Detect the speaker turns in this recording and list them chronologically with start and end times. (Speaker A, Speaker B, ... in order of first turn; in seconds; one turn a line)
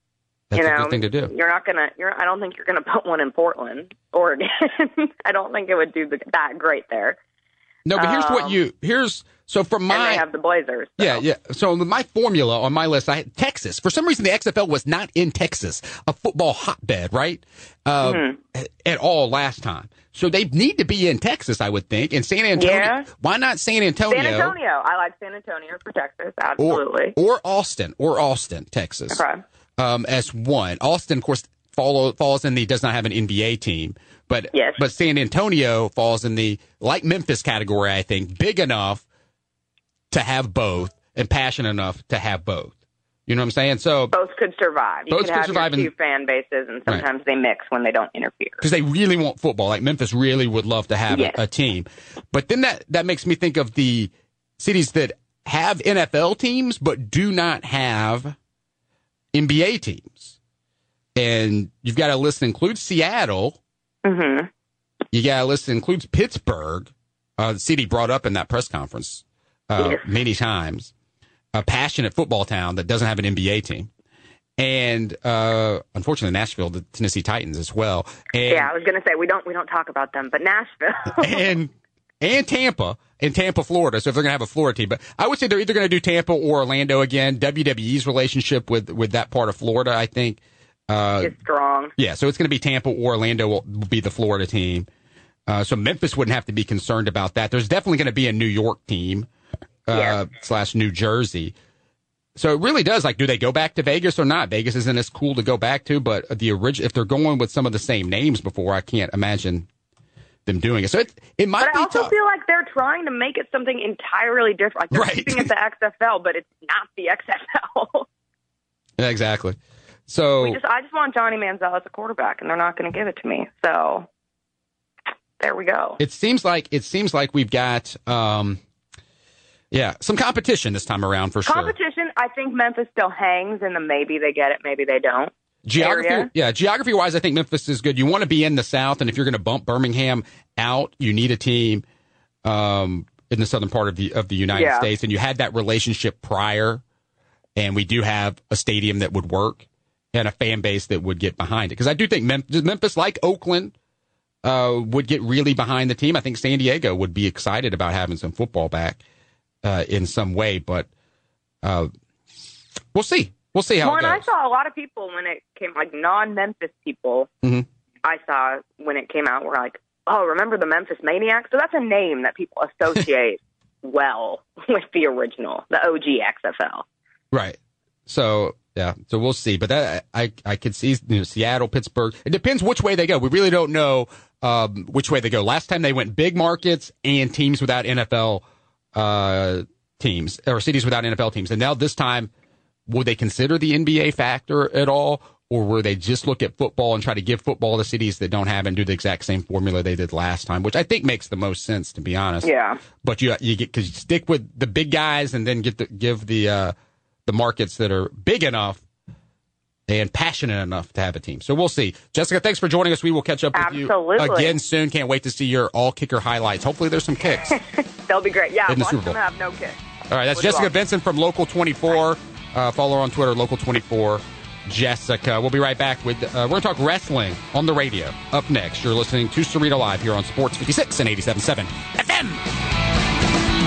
Speaker A: 0.5-1.3
Speaker B: 0.5-7.2
Speaker A: 7.8-10.2
Speaker B: 8.0-8.6
Speaker B: 9.9-11.2
Speaker A: 11.0-24.5
Speaker B: 18.0-18.4
Speaker B: 22.6-23.1
Speaker B: 24.1-27.1
Speaker A: 26.6-29.2
Speaker B: 29.1-29.4
Speaker A: 29.8-39.0
Speaker B: 34.5-34.8
Speaker A: 40.1-42.7
Speaker A: 43.3-44.1
Speaker B: 44.1-48.6
Speaker A: 45.1-45.9
Speaker A: 48.6-58.3
Speaker B: 51.1-51.4
Speaker A: 59.3-60.3
Speaker A: 61.1-63.6
Speaker B: 64.0-64.5
Speaker A: 65.1-70.9
Speaker B: 69.8-70.0
Speaker A: 71.5-73.9
Speaker A: 74.6-78.7
Speaker B: 78.5-81.4
Speaker A: 81.2-91.3
Speaker B: 91.2-91.9
Speaker A: 92.0-94.9
Speaker A: 95.5-99.3
Speaker A: 99.8-101.5
Speaker B: 99.9-100.2
Speaker A: 102.4-109.7
Speaker A: 110.5-112.1
Speaker B: 111.6-118.0
Speaker A: 114.9-115.5
Speaker A: 119.0-119.6
Speaker A: 120.1-120.6
Speaker B: 120.4-124.1
Speaker B: 125.4-126.0
Speaker A: 126.0-128.6
Speaker A: 129.7-131.7
Speaker B: 131.4-136.3
Speaker A: 135.6-141.8
Speaker A: 142.4-146.8
Speaker B: 144.5-144.9
Speaker A: 147.6-153.7
Speaker A: 154.4-159.0
Speaker A: 159.6-160.9
Speaker A: 161.6-161.9
Speaker A: 162.9-164.3
Speaker B: 163.8-167.3
Speaker B: 168.0-176.8
Speaker A: 177.3-188.4
Speaker A: 188.9-192.3
Speaker A: 192.9-202.5
Speaker B: 202.4-202.8
Speaker A: 203.0-206.7
Speaker A: 207.2-208.8
Speaker A: 209.9-217.5
Speaker B: 213.5-214.5
Speaker B: 217.5-219.8
Speaker A: 218.7-219.2
Speaker A: 220.1-232.4
Speaker B: 220.3-220.7